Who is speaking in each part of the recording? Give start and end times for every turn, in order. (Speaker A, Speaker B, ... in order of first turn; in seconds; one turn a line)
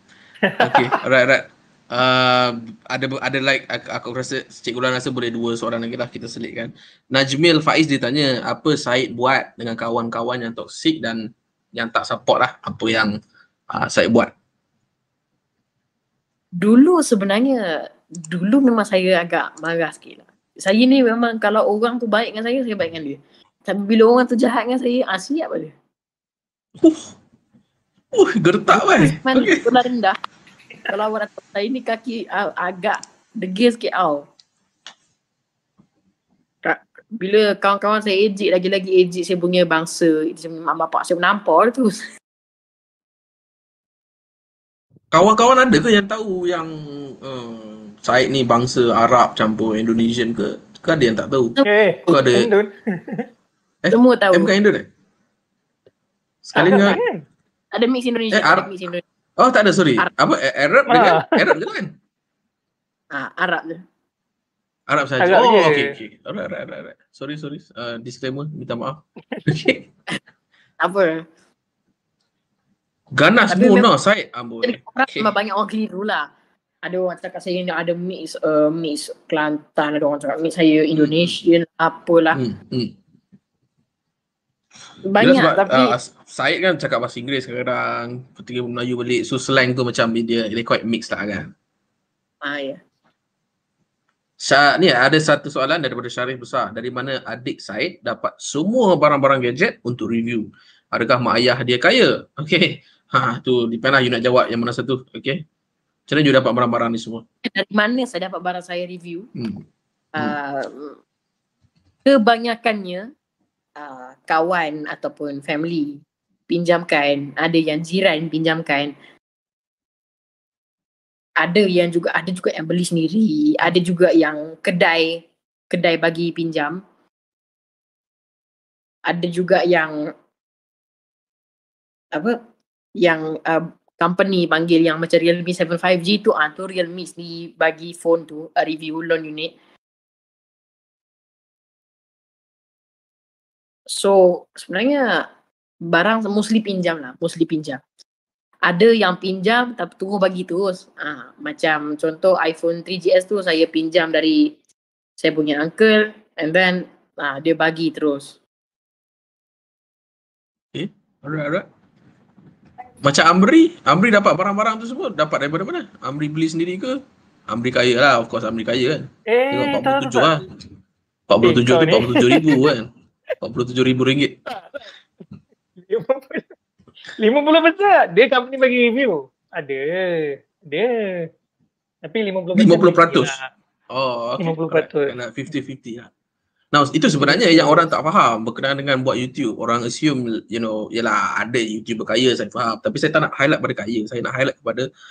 Speaker A: 0.5-0.9
Speaker B: 0.6-13.2
Speaker B: 13.7-14.3
Speaker C: 16.6-25.7
Speaker B: 26.8-27.1
Speaker B: 28.1-29.6
Speaker C: 28.7-30.2
Speaker C: 30.9-34.3
Speaker C: 36.6-42.0
Speaker B: 45.1-51.6
Speaker A: 51.6-53.3
Speaker B: 52.1-52.5
Speaker B: 53.8-54.9
Speaker C: 53.9-54.5
Speaker B: 56.4-57.0
Speaker A: 56.5-57.2
Speaker C: 57.7-59.0
Speaker B: 58.3-58.7
Speaker B: 59.4-61.9
Speaker A: 60.9-61.4
Speaker C: 63.1-63.8
Speaker B: 64.9-69.8
Speaker A: 65.2-65.9
Speaker C: 70.8-71.2
Speaker B: 73.1-75.3
Speaker C: 73.5-73.9
Speaker C: 74.6-76.3
Speaker C: 76.8-82.4
Speaker B: 80.9-81.3
Speaker B: 82.3-82.9
Speaker C: 85.0-85.9
Speaker B: 85.2-91.5
Speaker C: 92.4-92.8
Speaker B: 94.4-105.4
Speaker B: 106.1-107.2
Speaker C: 107.4-109.3
Speaker B: 109.3-109.7
Speaker C: 110.1-111.0
Speaker C: 112.0-113.1
Speaker C: 113.8-118.9
Speaker C: 121.4-126.8
Speaker C: 129.1-130.1
Speaker C: 132.1-132.4
Speaker C: 133.0-139.5
Speaker C: 143.9-145.3
Speaker C: 145.8-147.8
Speaker C: 148.7-154.5
Speaker C: 155.2-158.3
Speaker B: 160.7-161.7
Speaker B: 163.0-167.0
Speaker B: 167.5-170.4
Speaker A: 169.3-170.4
Speaker B: 171.3-172.9
Speaker A: 171.4-172.6
Speaker B: 173.4-174.3
Speaker A: 174.5-174.9
Speaker A: 175.8-176.5
Speaker A: 177.2-181.3
Speaker A: 182.0-183.5
Speaker B: 182.5-183.4
Speaker B: 183.9-186.1
Speaker A: 184.4-185.1
Speaker B: 186.7-194.9
Speaker A: 187.1-187.9